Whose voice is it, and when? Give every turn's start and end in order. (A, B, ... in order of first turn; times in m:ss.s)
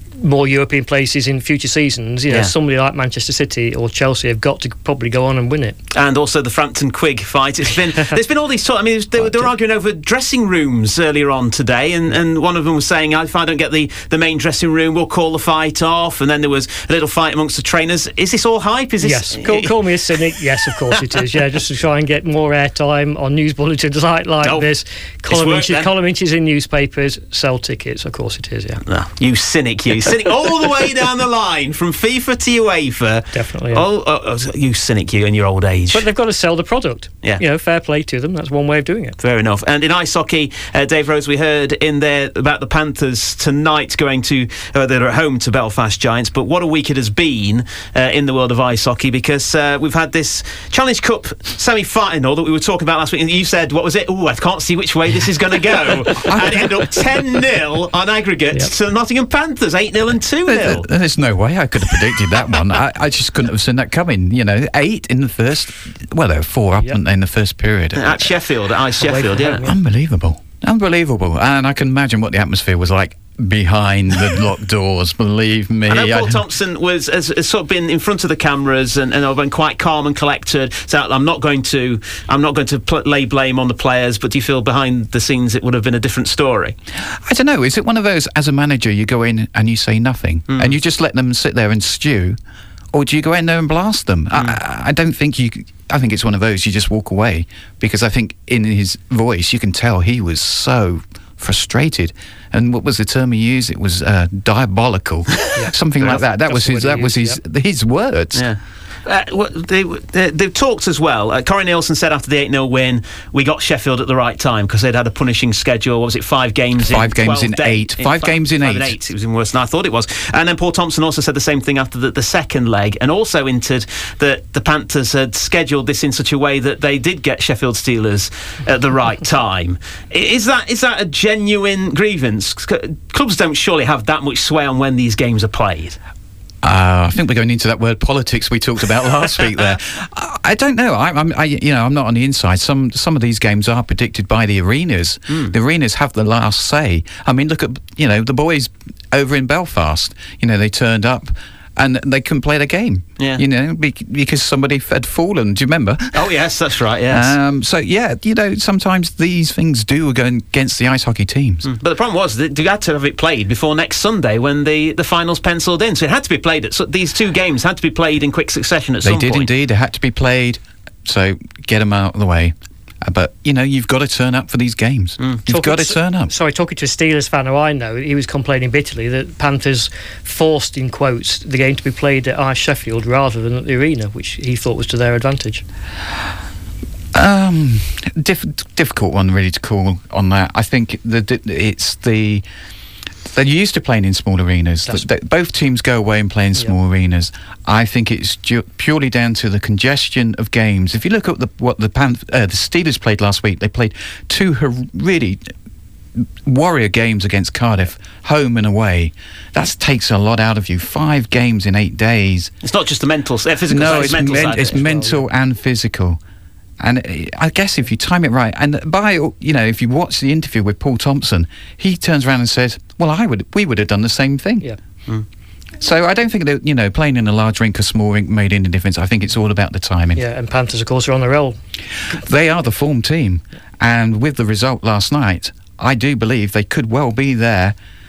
0:00.2-0:05.8 A
0:05.9-0:19.8 B
0:09.2-0:09.5 A
0:19.0-0:28.8 A
0:24.4-0:24.7 B
0:25.2-0:25.9 B
0:28.9-0:36.1 B
0:33.3-0:33.8 A
0:35.9-0:39.2 A
0:39.2-1:00.8 B
0:56.3-0:56.5 C
1:00.5-1:08.3 C
1:07.9-1:09.6 B
1:09.0-1:09.7 A
1:09.6-1:16.4 C
1:15.9-1:26.8 B
1:27.2-1:32.4 C
1:30.5-1:30.8 B
1:32.9-1:48.5 C
1:45.6-1:47.4 A
1:48.3-2:16.0 B
1:56.8-1:58.9 C
2:16.6-2:36.2 C
2:36.1-2:37.3 B
2:37.1-2:41.7 C
2:41.6-2:49.5 B
2:49.0-2:56.3 C
2:55.5-3:05.6 A
3:07.1-3:12.4 C
3:13.3-3:25.5 C
3:26.4-3:32.5 C
3:32.6-3:34.8 B
3:33.7-3:36.2 C
3:34.6-3:35.2 A
3:36.8-3:44.7 C
3:45.8-3:50.2 C
3:50.2-3:51.6 A
3:52.1-3:57.8 C